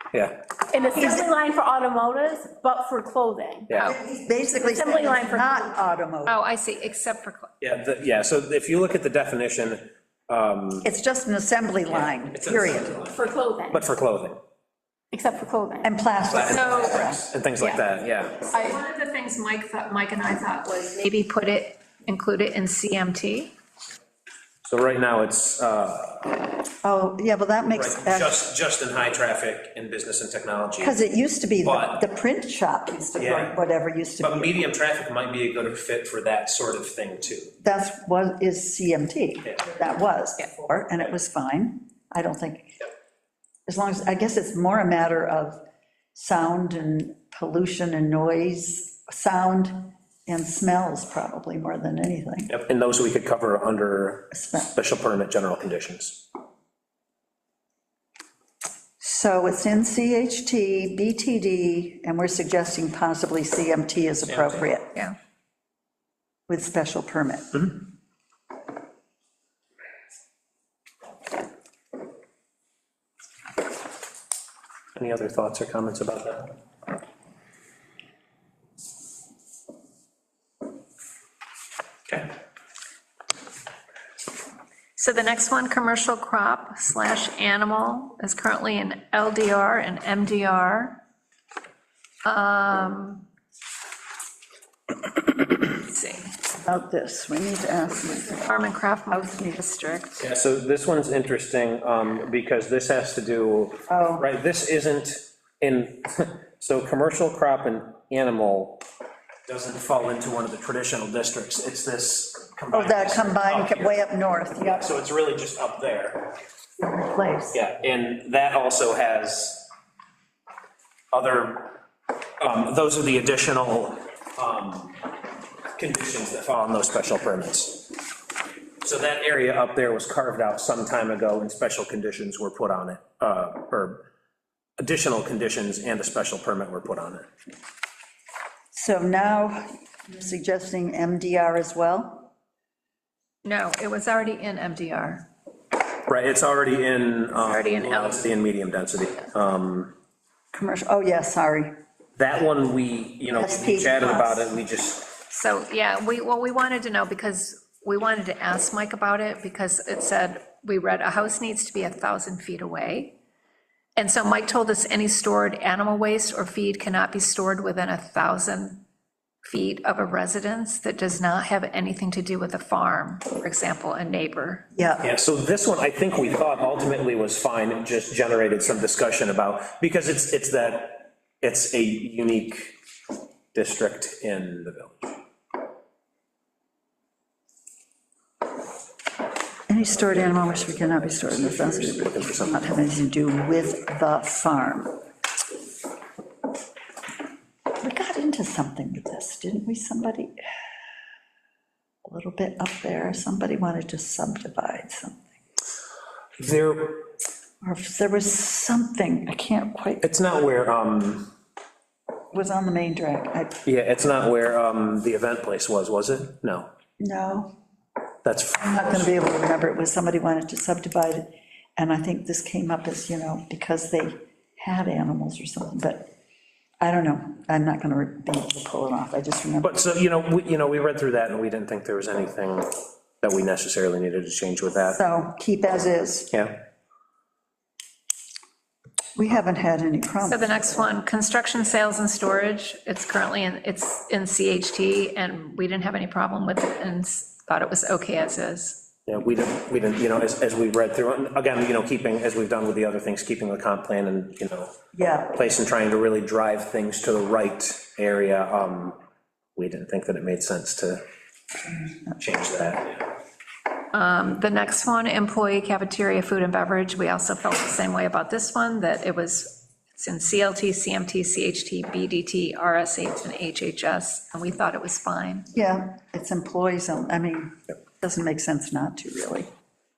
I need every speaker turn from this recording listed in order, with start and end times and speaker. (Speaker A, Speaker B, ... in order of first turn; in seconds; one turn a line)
Speaker A: 0.7-3.7
Speaker B: 1.0-1.2
Speaker C: 3.7-4.0
Speaker B: 3.8-6.4
Speaker A: 4.6-5.7
Speaker D: 6.2-7.5
Speaker C: 7.6-10.9
Speaker B: 10.8-13.0
Speaker C: 11.8-14.4
Speaker A: 13.0-13.9
Speaker A: 15.1-15.9
Speaker B: 15.8-17.2
Speaker C: 16.3-18.4
Speaker D: 16.4-17.1
Speaker A: 18.5-18.8
Speaker D: 18.5-23.5
Speaker C: 24.6-26.4
Speaker B: 26.8-28.4
Speaker C: 27.7-30.9
Speaker B: 30.8-34.6
Speaker C: 31.6-32.0
Speaker C: 33.1-33.6
Speaker C: 34.2-37.5
Speaker B: 37.6-42.9
Speaker B: 43.7-45.6
Speaker B: 46.1-52.5
Speaker C: 52.5-56.2
Speaker B: 54.3-54.7
Speaker B: 59.0-65.0
Speaker C: 64.2-64.7
Speaker B: 66.5-67.8
Speaker C: 74.9-76.5
Speaker D: 85.0-91.0
Speaker D: 92.2-93.3
Speaker D: 95.6-96.3
Speaker B: 96.6-98.5
Speaker D: 98.4-100.2
Speaker B: 99.1-100.0
Speaker C: 100.2-108.8
Speaker B: 103.9-104.3
Speaker C: 109.5-114.0
Speaker B: 112.7-114.9
Speaker C: 114.6-116.3
Speaker B: 116.8-117.6
Speaker C: 117.5-119.7
Speaker C: 121.1-121.8
Speaker C: 122.4-125.0
Speaker C: 125.8-127.9
Speaker C: 128.8-134.0
Speaker C: 134.8-137.3
Speaker B: 138.7-142.3
Speaker D: 143.4-145.2
Speaker C: 146.1-149.9
Speaker D: 147.3-148.3
Speaker B: 150.5-151.8
Speaker C: 152.2-155.1
Speaker B: 153.3-154.5
Speaker D: 155.3-163.1
Speaker D: 163.9-168.8
Speaker D: 169.4-174.7
Speaker B: 174.7-175.1
Speaker C: 175.0-182.7
Speaker C: 183.5-185.2
Speaker B: 189.7-195.0
Speaker C: 189.8-192.8
Speaker B: 197.8-200.4
Speaker B: 202.0-205.2
Speaker C: 206.4-207.1
Speaker B: 207.6-210.0
Speaker C: 210.0-211.3
Speaker B: 212.3-213.6
Speaker C: 213.6-216.7
Speaker B: 217.0-217.5
Speaker C: 218.2-219.3
Speaker B: 218.6-226.1
Speaker B: 226.8-229.9
Speaker C: 229.6-235.0
Speaker B: 234.9-236.3
Speaker C: 236.3-236.6
Speaker B: 239.2-240.9
Speaker D: 240.2-248.8
Speaker C: 249.1-254.7
Speaker B: 254.9-255.3
Speaker C: 255.3-259.0
Speaker C: 259.6-261.0
Speaker C: 262.1-263.0
Speaker D: 263.9-275.5
Speaker B: 275.5-279.5